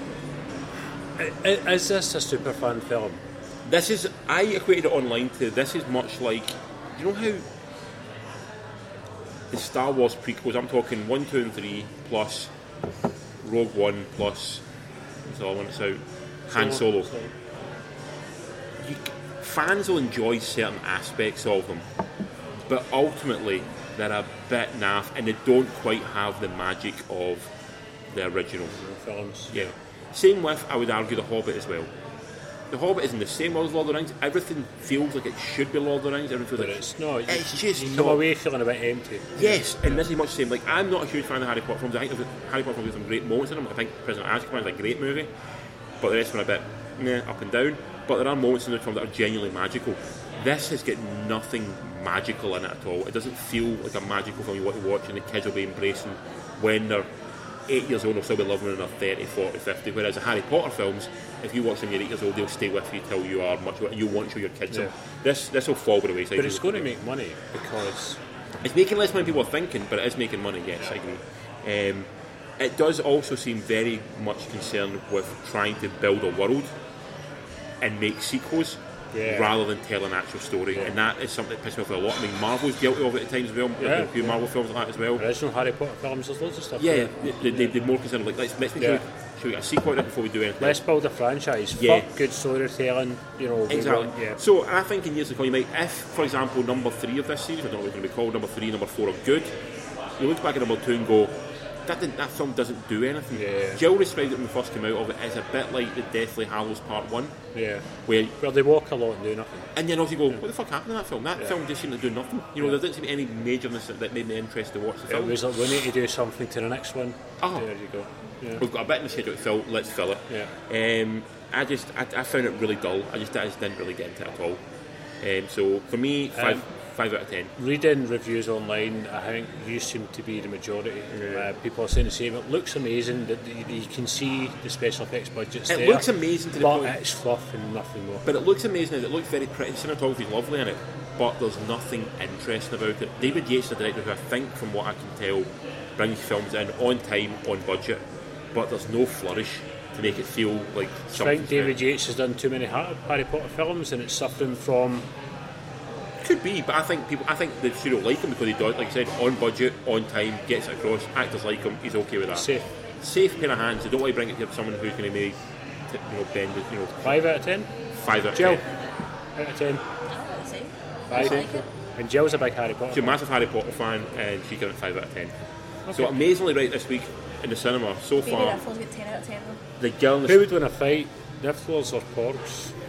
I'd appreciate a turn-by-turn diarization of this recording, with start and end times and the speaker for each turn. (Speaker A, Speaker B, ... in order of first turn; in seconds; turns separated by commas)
Speaker A: 1.2-3.2, Speaker B: 3.6-7.5, Speaker B: 9.5-12.5, Speaker B: 13.4-14.6, Speaker B: 15.2-17.1, Speaker A: 16.5-17.3, Speaker B: 18.8-21.9, Speaker B: 22.7-27.5, Speaker B: 28.1-28.8, Speaker A: 28.7-29.7, Speaker B: 29.5-31.9, Speaker B: 32.7-38.3, Speaker A: 36.6-39.7, Speaker B: 39.4-45.3, Speaker B: 46.0-57.1, Speaker B: 57.7-66.9, Speaker A: 66.4-68.2, Speaker B: 68.6-76.7, Speaker B: 77.8-85.2, Speaker A: 79.1-79.6, Speaker A: 83.8-84.4, Speaker A: 85.2-87.8, Speaker B: 86.8-90.8, Speaker A: 90.6-94.4, Speaker B: 91.7-92.1, Speaker B: 93.7-99.5, Speaker B: 100.2-107.3, Speaker A: 103.3-103.8, Speaker A: 107.5-107.8, Speaker B: 108.1-108.4, Speaker A: 108.4-109.7, Speaker B: 109.8-115.4, Speaker A: 115.1-118.6, Speaker B: 117.4-117.7, Speaker B: 118.6-124.6, Speaker B: 125.2-127.5, Speaker A: 126.3-126.6, Speaker A: 127.6-138.3, Speaker B: 131.2-131.5, Speaker B: 135.7-136.9, Speaker B: 138.2-151.8, Speaker A: 151.1-155.1, Speaker B: 156.2-165.4, Speaker A: 162.3-162.7, Speaker B: 165.9-167.3, Speaker A: 167.0-167.7, Speaker B: 168.0-168.6, Speaker A: 168.3-168.6, Speaker A: 169.3-169.8, Speaker C: 170.1-171.7, Speaker A: 171.1-173.2, Speaker B: 171.1-171.6, Speaker B: 172.9-175.3, Speaker A: 175.9-176.1, Speaker B: 175.9-178.6, Speaker C: 178.2-179.6, Speaker B: 179.8-180.5, Speaker A: 180.3-182.7